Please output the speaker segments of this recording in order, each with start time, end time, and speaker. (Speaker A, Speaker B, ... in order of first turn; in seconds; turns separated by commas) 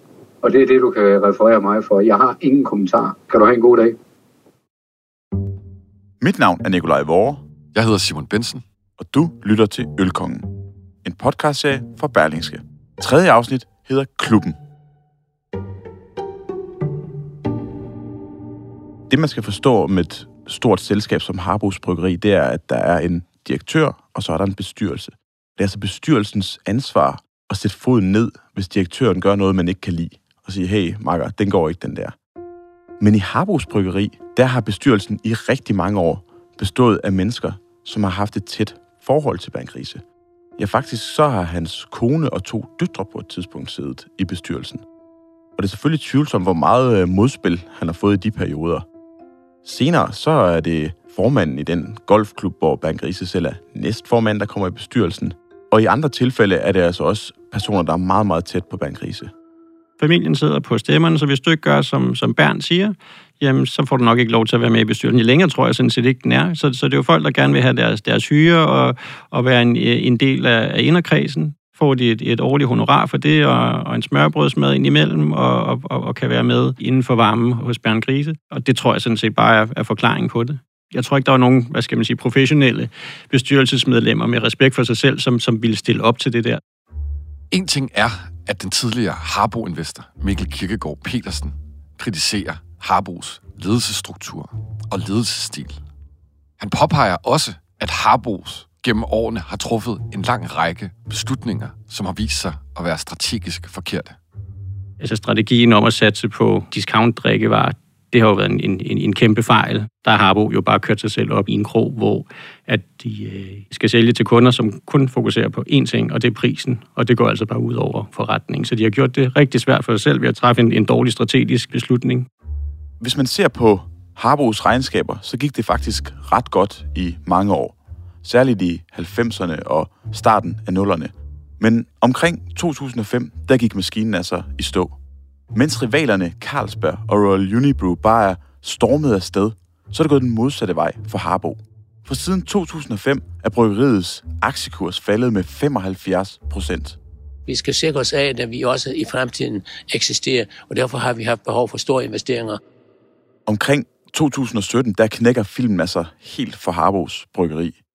Speaker A: 0.4-4.0, Speaker B: 6.2-7.4, Speaker C: 7.7-8.6, Speaker B: 9.0-10.5, Speaker B: 11.0-14.6, Speaker B: 19.1-32.2, Speaker B: 33.0-40.0, Speaker B: 40.6-44.8, Speaker B: 45.6-48.9, Speaker B: 49.6-59.3, Speaker D: 60.0-86.6, Speaker C: 87.5-95.8, Speaker C: 96.6-104.2, Speaker D: 105.0-122.3, Speaker B: 123.0-135.0, Speaker B: 135.5-147.0, Speaker E: 147.5-152.6, Speaker B: 153.5-157.8